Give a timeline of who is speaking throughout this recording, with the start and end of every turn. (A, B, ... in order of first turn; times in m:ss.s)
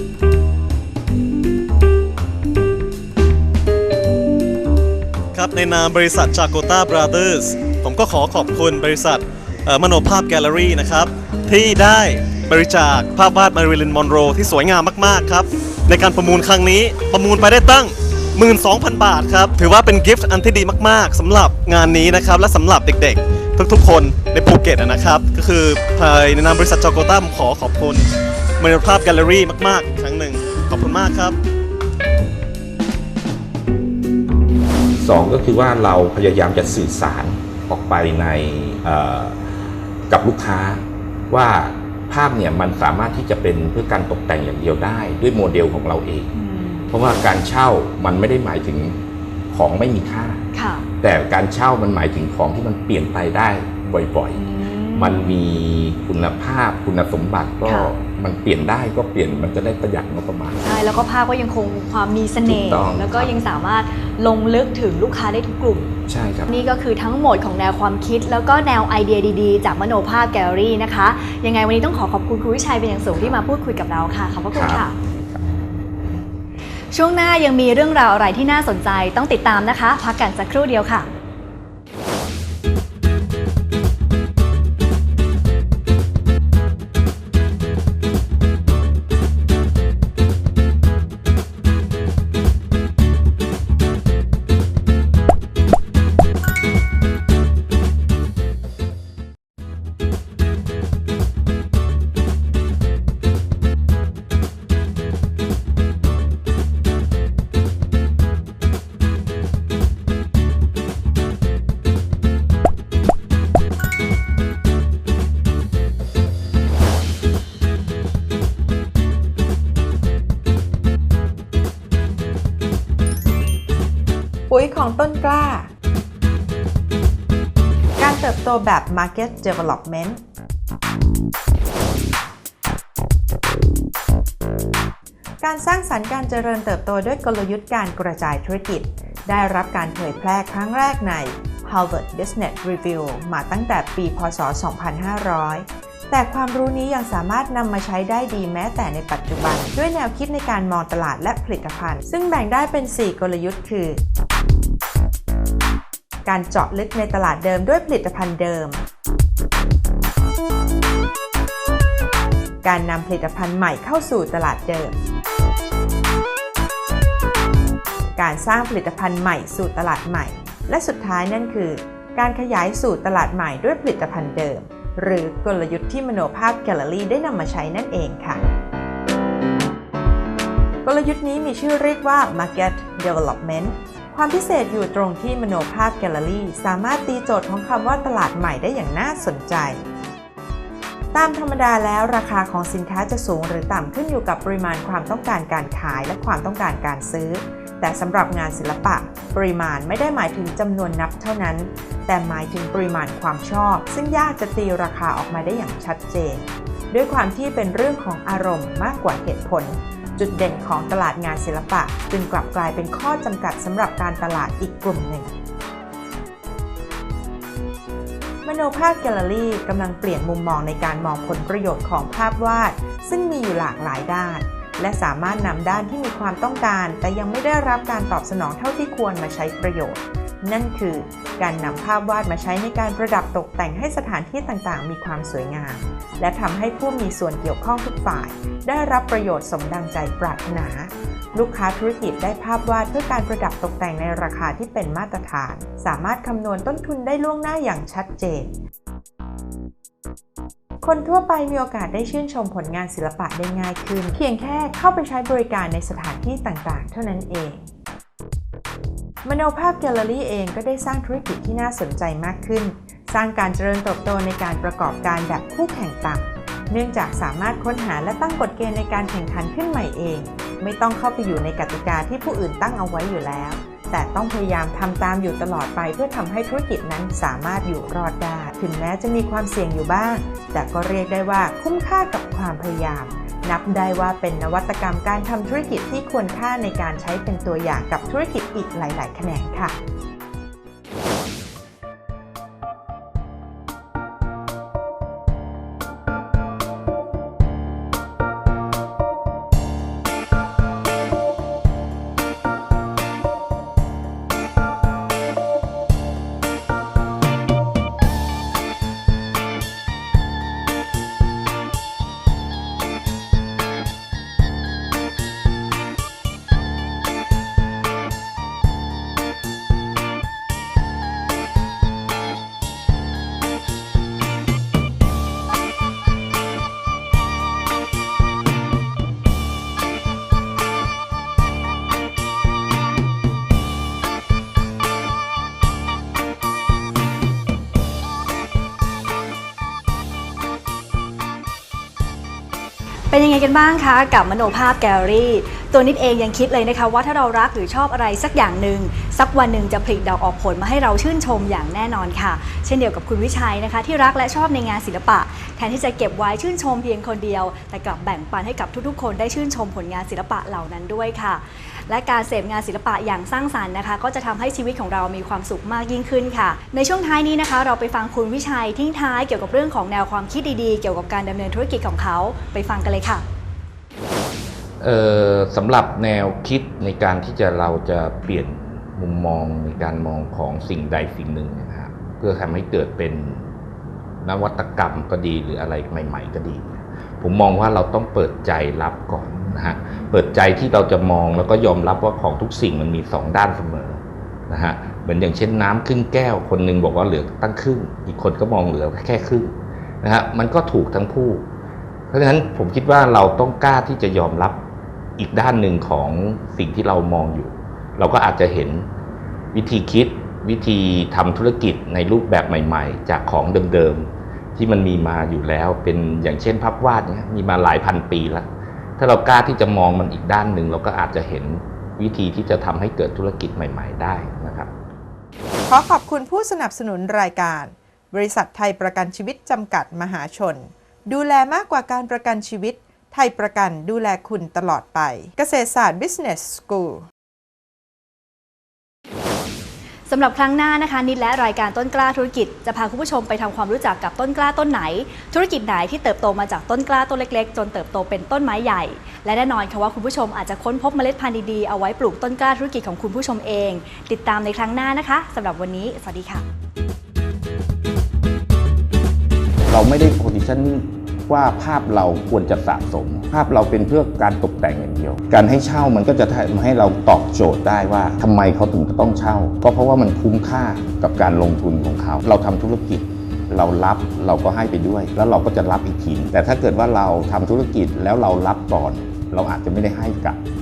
0:05.3-0:28.0 A
0:28.6-0:31.4 A
0:35.0-0:39.5 B
0:40.1-0:46.3 B
0:46.3-0:46.9 C
0:46.9-0:49.0 B
0:49.5-0:50.4 B
0:50.5-0:50.9 C
0:51.0-0:54.4 B
0:54.3-0:55.4 C
0:54.9-1:00.6 B
0:57.6-0:57.9 C
1:00.6-1:06.0 C
1:02.4-1:03.3 B
1:06.1-1:06.5 B
1:06.5-1:14.9 C
1:14.5-1:15.4 B
1:16.9-1:21.1 C
2:04.5-2:05.7 D
2:08.0-2:10.2 D
2:15.4-2:34.0 D
2:36.2-2:38.8 D
2:42.6-2:44.9 D
2:48.2-2:58.4 D
3:00.8-3:09.8 D
3:11.1-3:35.3 D
3:38.4-4:08.5 D
4:10.8-4:17.7 D
4:19.2-4:49.8 D
5:43.1-6:13.2 C
6:14.8-6:23.5 B
6:24.2-6:41.4 B
6:42.1-6:44.6 B
6:45.2-6:48.8 B
6:49.5-6:58.5 B
6:59.0-7:04.7 B
7:05.7-7:17.0 D
7:20.1-7:36.4 C
7:39.6-8:00.4 B